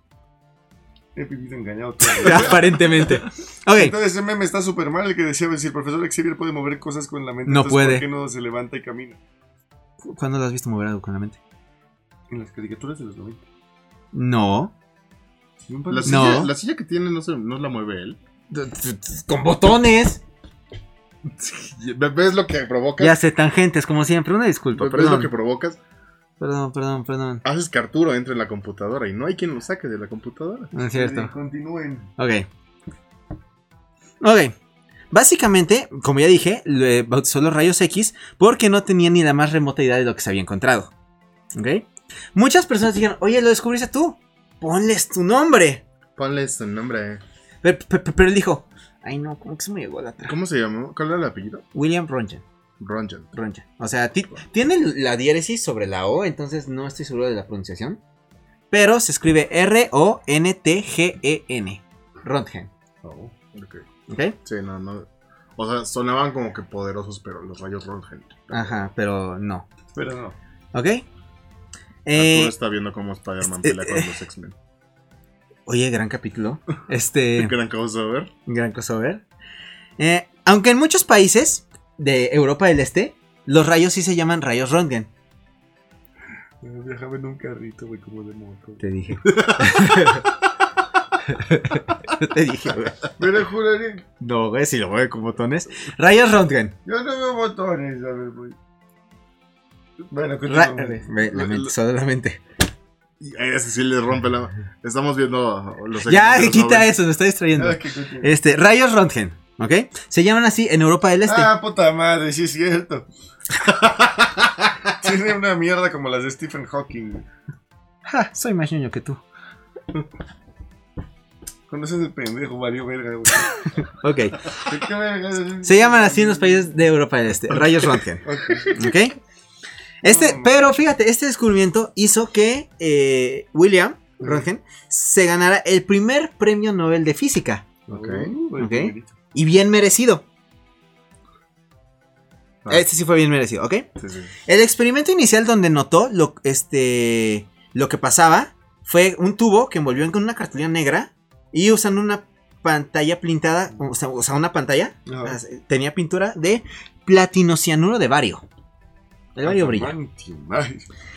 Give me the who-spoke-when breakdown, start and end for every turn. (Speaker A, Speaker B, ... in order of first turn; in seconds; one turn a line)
Speaker A: 1.1-3.1
Speaker B: 2.1-4.0
Speaker A: 3.7-9.2
Speaker B: 7.5-8.1
Speaker B: 10.0-11.4
Speaker A: 12.3-13.4
Speaker B: 14.1-14.7
Speaker A: 15.7-16.4
Speaker C: 15.9-18.2
Speaker B: 16.1-16.5
Speaker B: 18.5-20.2
Speaker C: 21.3-23.2
Speaker B: 23.0-25.3
Speaker C: 24.7-25.8
Speaker B: 26.4-27.4
Speaker C: 27.4-30.7
Speaker B: 30.7-31.3
Speaker A: 30.8-32.1
Speaker B: 32.2-32.5
Speaker B: 34.2-34.5
Speaker B: 35.1-40.9
Speaker B: 41.5-45.8
Speaker C: 46.2-47.2
Speaker B: 47.6-50.4
Speaker C: 50.2-51.6
Speaker B: 51.8-52.4
Speaker C: 52.8-53.3
Speaker B: 53.4-58.0
Speaker B: 58.7-62.7
Speaker C: 63.0-63.8
Speaker B: 64.1-64.4
Speaker C: 64.4-68.8
Speaker B: 68.5-69.7
Speaker A: 69.9-70.4
Speaker B: 70.7-71.0
Speaker B: 72.0-72.6
Speaker C: 72.1-74.5
Speaker B: 73.4-74.1
Speaker B: 75.7-77.5
Speaker C: 77.4-78.3
Speaker B: 78.5-79.2
Speaker B: 80.0-85.1
Speaker A: 86.6-88.8
Speaker B: 88.8-90.3
Speaker C: 89.3-90.2
Speaker B: 91.2-93.0
Speaker A: 93.2-94.1
Speaker B: 94.2-96.8
Speaker A: 96.9-98.6
Speaker A: 100.1-101.6
Speaker B: 100.5-102.4
Speaker C: 103.2-106.9
Speaker B: 106.0-111.5
Speaker A: 107.5-108.3
Speaker A: 111.3-113.1
Speaker C: 113.8-114.7
Speaker A: 114.9-117.3
Speaker B: 118.1-119.2
Speaker A: 121.7-123.7
Speaker B: 124.0-124.6
Speaker A: 124.6-126.7
Speaker B: 125.6-129.2
Speaker A: 127.6-128.9
Speaker B: 130.0-137.7
Speaker A: 130.0-130.7
Speaker C: 137.9-138.3
Speaker A: 137.9-139.1
Speaker B: 138.6-140.2
Speaker B: 142.7-143.9
Speaker C: 144.0-144.3
Speaker B: 144.5-158.4
Speaker A: 155.1-155.4
Speaker B: 159.4-159.9
Speaker A: 159.4-160.9